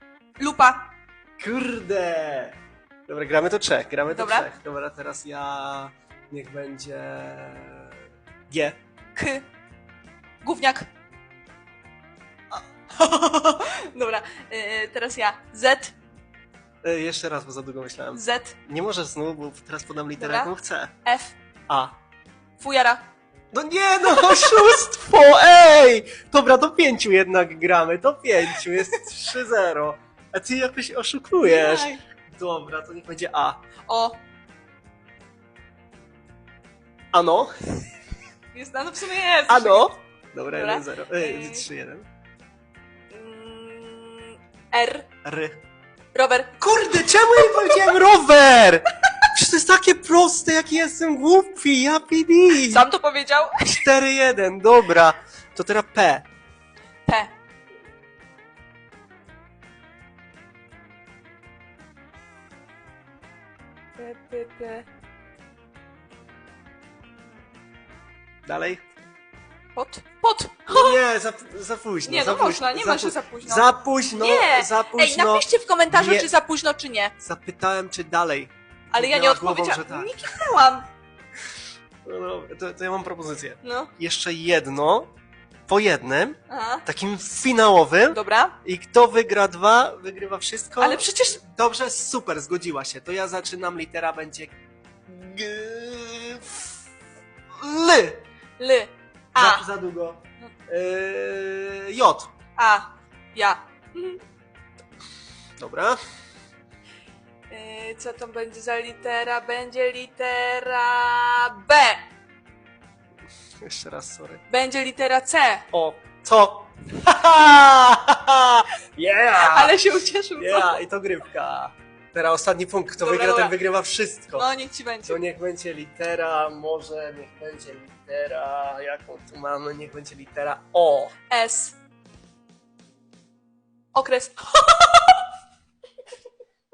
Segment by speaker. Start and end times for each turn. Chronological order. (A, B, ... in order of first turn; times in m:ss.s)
0:00.4-0:00.9 A
0:01.4-0:07.9 B
0:04.1-0:04.5 A
0:08.5-0:08.8 B
0:09.1-0:09.4 A
0:10.4-0:10.9 A
0:13.0-0:15.9 A
0:16.8-0:20.9 B
0:18.1-0:18.6 A
0:20.2-0:20.5 A
0:21.0-0:21.4 A
0:22.6-0:23.0 A
0:23.5-0:33.6 B
0:24.0-0:24.8 A
0:31.4-0:32.0 A
0:33.9-0:34.2 A
0:37.1-0:37.5 B
0:38.5-0:39.9 A
0:39.5-0:42.0 B
0:40.5-0:41.6 A
0:43.1-0:45.1 A
0:45.2-0:45.6 B
0:46.1-0:47.8 A
0:46.6-0:52.8 B
0:52.6-0:53.9 A
0:53.8-0:56.3 B
0:57.0-0:57.3 A
1:04.0-1:04.8 A
1:08.4-1:08.8 B
1:09.7-1:11.0 A
1:10.7-1:16.3 B
1:12.0-1:17.1 A
1:17.2-1:20.1 B
1:18.9-1:20.8 A
1:22.0-1:25.1 B
1:23.6-1:23.9 A
1:25.7-1:34.5 B
1:26.5-1:26.8 A
1:28.1-1:28.6 A
1:30.8-1:31.4 A
1:35.0-1:36.7 B
1:37.5-1:38.2 B
1:38.6-1:39.7 A
1:39.3-1:42.3 B
1:42.6-1:44.2 A
1:45.6-1:46.0 B
1:47.5-1:52.0 A
1:53.6-1:54.4 B
1:54.5-1:55.6 A
1:55.7-2:04.5 B
1:59.4-2:00.8 A
2:03.0-2:03.5 A
2:04.3-2:05.3 A
2:05.0-2:11.1 B
2:11.3-2:11.8 A
2:13.9-2:15.1 A